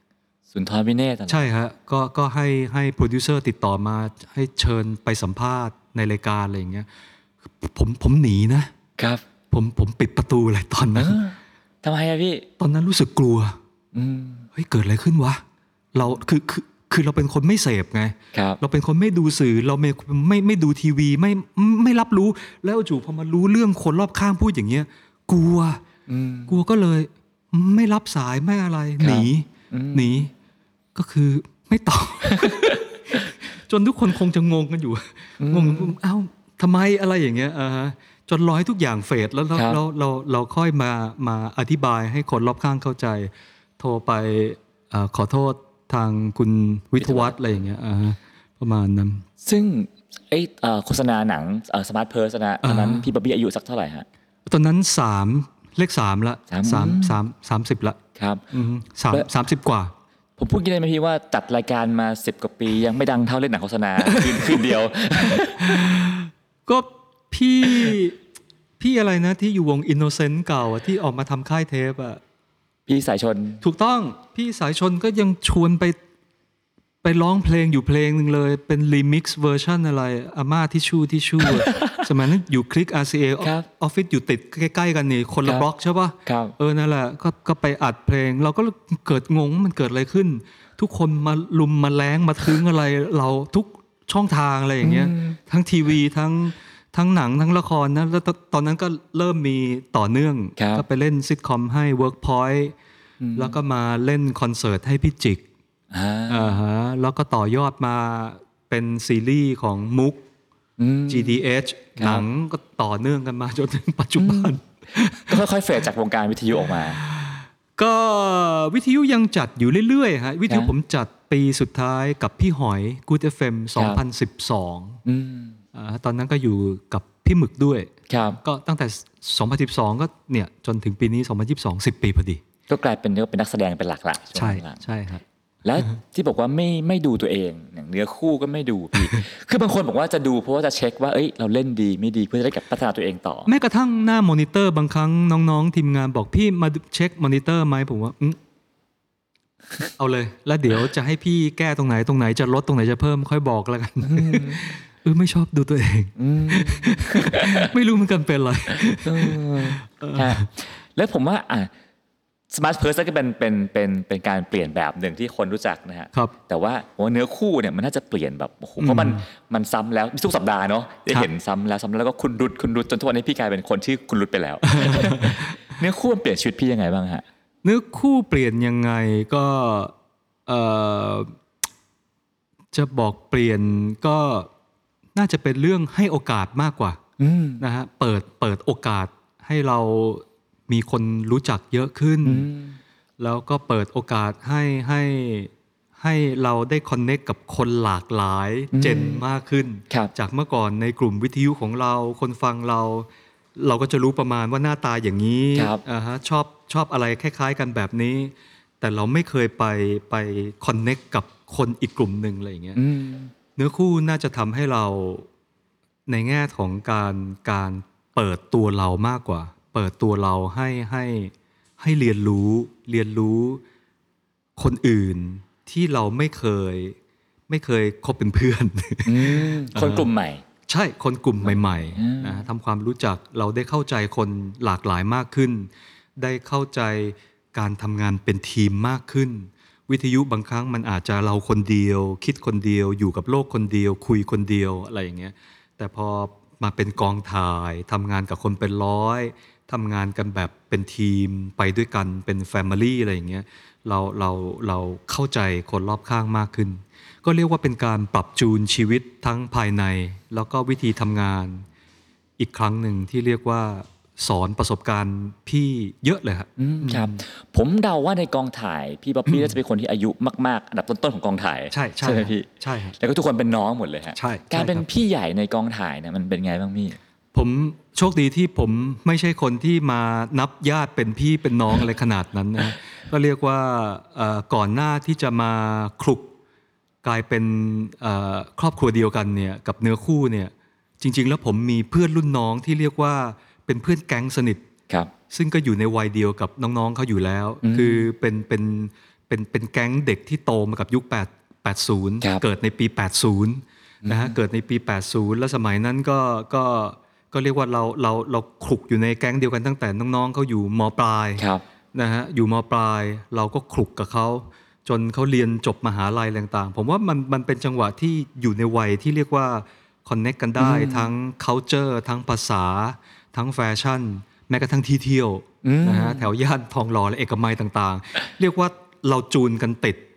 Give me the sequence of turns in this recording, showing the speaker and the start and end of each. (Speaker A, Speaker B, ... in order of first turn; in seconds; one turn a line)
Speaker A: 0.5-1.4
Speaker B: 1.3-6.9
Speaker B: 7.6-8.7
Speaker A: 9.0-9.2
Speaker B: 9.5-11.2
Speaker A: 10.9-12.4
Speaker B: 12.6-13.6
Speaker A: 13.9-14.5
Speaker B: 14.5-15.4
Speaker B: 15.9-25.8
Speaker A: 18.3-18.6
Speaker A: 26.1-26.5
Speaker B: 26.5-30.3
Speaker A: 29.0-30.2
Speaker B: 30.9-49.2
Speaker A: 32.3-32.8
Speaker A: 35.4-35.9
Speaker A: 47.0-47.5
Speaker A: 49.4-54.0
Speaker B: 52.6-53.1
Speaker B: 54.5-58.0
Speaker A: 56.5-57.2
Speaker A: 58.1-58.4
Speaker B: 58.5-59.9
Speaker A: 60.4-65.9
Speaker B: 64.0-64.6
Speaker B: 65.3-68.2
Speaker B: 68.8-72.2
Speaker A: 72.9-73.6
Speaker B: 73.6-76.0
Speaker B: 77.0-102.7
Speaker A: 81.4-82.1
Speaker A: 83.4-83.7
Speaker A: 86.2-86.5
Speaker A: 94.8-95.4
Speaker A: 100.6-100.8
Speaker A: 103.2-103.5
Speaker B: 103.3-105.4
Speaker A: 105.9-106.6
Speaker B: 106.3-110.2
Speaker A: 110.8-111.4
Speaker B: 111.1-115.4
Speaker A: 112.0-112.2
Speaker A: 114.2-114.5
Speaker A: 115.3-117.0
Speaker B: 117.0-125.0
Speaker A: 125.0-125.6
Speaker B: 125.7-132.4
Speaker A: 128.1-128.4
Speaker A: 132.7-134.8
Speaker B: 134.3-135.2
Speaker A: 135.6-143.5
Speaker B: 143.4-148.4
Speaker B: 150.0-160.4
Speaker A: 154.0-154.7
Speaker A: 156.2-157.7
Speaker A: 158.8-161.7
Speaker A: 162.5-177.2
Speaker B: 168.8-169.2
Speaker B: 174.7-175.5
Speaker B: 177.6-179.9
Speaker B: 180.5-181.3
Speaker B: 182.7-184.5
Speaker B: 185.1-187.0
Speaker A: 187.2-187.6
Speaker B: 187.6-192.5
Speaker A: 192.2-192.8
Speaker B: 193.2-212.8
Speaker A: 198.7-199.2
Speaker A: 205.5-205.8
Speaker A: 212.8-213.3
Speaker B: 213.6-215.3
Speaker B: 216.1-223.6
Speaker B: 224.6-226.9
Speaker B: 227.5-230.1
Speaker A: 229.1-230.4
Speaker B: 230.7-261.6
Speaker A: 231.4-232.5
Speaker B: 262.4-267.1
Speaker A: 266.6-277.0
Speaker B: 269.3-269.6
Speaker B: 271.7-272.9
Speaker B: 274.1-274.8
Speaker B: 277.3-286.3
Speaker B: 287.0-294.6
Speaker B: 295.3-330.0
Speaker A: 297.6-298.1
Speaker A: 304.0-304.3
Speaker A: 311.4-311.6
Speaker A: 320.6-321.1
Speaker A: 325.6-326.3